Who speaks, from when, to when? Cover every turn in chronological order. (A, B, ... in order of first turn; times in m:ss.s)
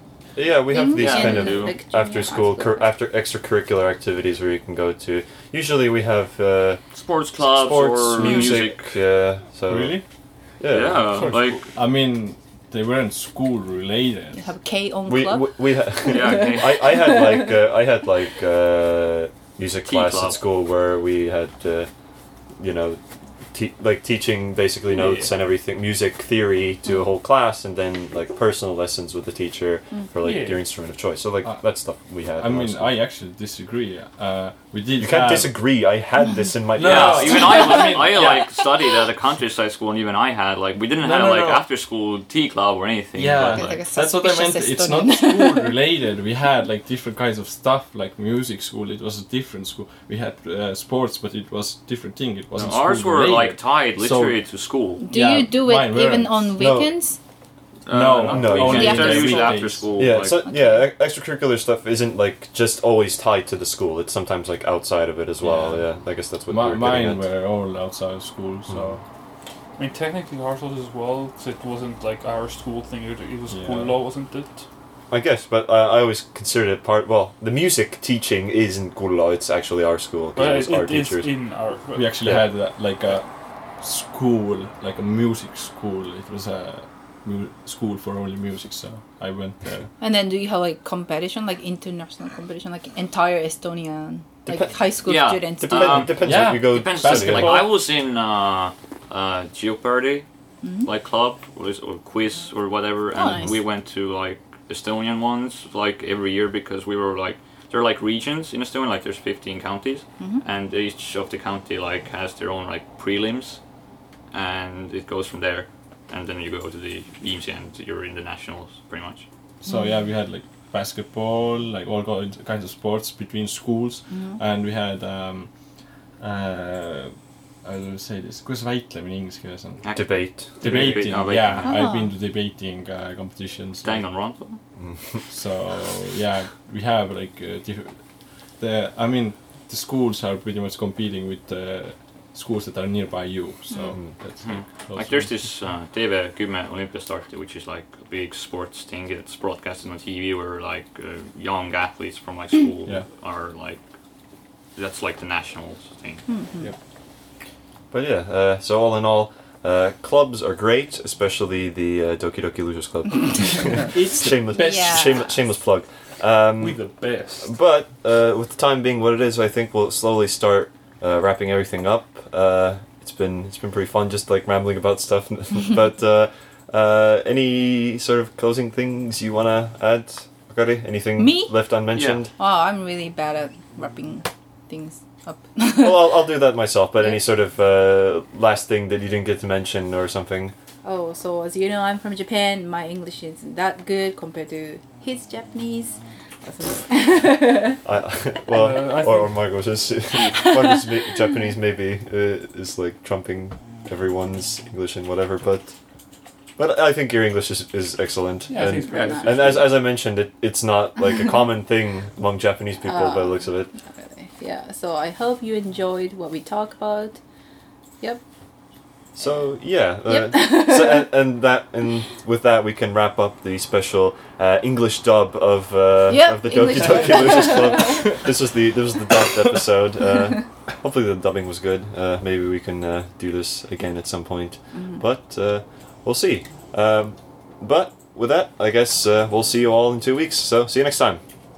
0:00.4-0:06.8 A
0:00.7-0:02.9 B
0:01.0-0:01.8 C
0:06.9-0:08.8 C
0:07.4-0:10.0 A
0:08.2-0:08.6 B
0:09.7-0:10.0 D
0:10.6-0:11.4 A
0:10.7-0:11.6 C
0:11.1-0:11.6 E
0:11.3-0:14.4 D
0:14.3-0:17.5 B
0:15.1-0:21.9 A
0:16.1-0:16.8 C
0:19.8-0:20.4 C
0:22.6-0:23.0 A
0:23.5-0:33.0 A
0:30.2-0:30.6 E
0:32.4-0:35.6 D
0:35.0-0:37.8 A
0:36.7-0:38.5 D
0:36.8-0:43.8 C
0:41.0-0:41.6 D
0:43.1-0:54.4 D
0:43.5-0:45.7 B
0:52.5-0:55.0 C
0:55.0-0:57.2 B
0:55.1-0:56.6 D
0:56.6-0:56.9 A
0:57.8-1:00.4 C
0:57.9-0:59.9 D
0:58.2-0:59.3 A
0:58.6-0:59.6 B
1:00.0-1:07.2 A
1:00.4-1:00.9 B
1:05.4-1:05.9 D
1:06.5-1:09.0 D
1:08.7-1:09.0 A
1:09.8-1:14.6 E
1:13.5-1:14.0 D
1:15.1-1:21.3 A
1:20.4-1:22.3 E
1:21.9-1:29.9 D
1:30.0-1:36.1 B
1:34.5-1:34.8 A
1:35.0-1:40.2 C
1:35.6-1:37.7 A
1:36.2-1:37.8 D
1:40.6-1:40.9 B
1:40.8-1:53.6 C
1:43.1-1:43.6 B
1:54.3-1:59.2 C
1:59.6-2:05.5 D
1:59.6-2:00.0 B
2:04.1-2:04.4 B
2:06.2-2:07.1 D
2:07.6-2:09.8 D
2:09.8-2:11.8 C
2:09.9-2:11.1 A
2:10.6-2:14.0 D
2:11.6-2:12.1 B
2:13.8-2:14.6 C
2:14.8-2:15.2 A
2:15.3-2:18.0 D
2:18.6-2:25.3 D
2:24.4-2:33.8 C
2:34.8-2:36.2 C
2:36.3-2:36.7 B
2:37.9-2:46.8 A
2:43.9-2:45.1 D
2:44.5-2:45.4 B
2:46.6-2:47.5 E
2:47.4-3:02.3 A
3:01.2-3:01.5 B
3:01.9-3:02.2 C
3:02.4-3:06.2 B
3:05.8-3:10.5 A
3:10.8-3:17.8 B
3:17.8-3:25.7 A
3:18.5-3:19.4 E
3:26.6-3:33.7 A
3:28.5-3:29.7 E
3:28.9-3:29.4 C
3:29.1-3:29.6 B
3:32.8-3:33.4 B
3:34.0-3:37.2 B
3:39.2-4:01.2 A
3:40.1-3:41.1 B
3:46.1-3:48.2 B
3:54.7-3:55.0 B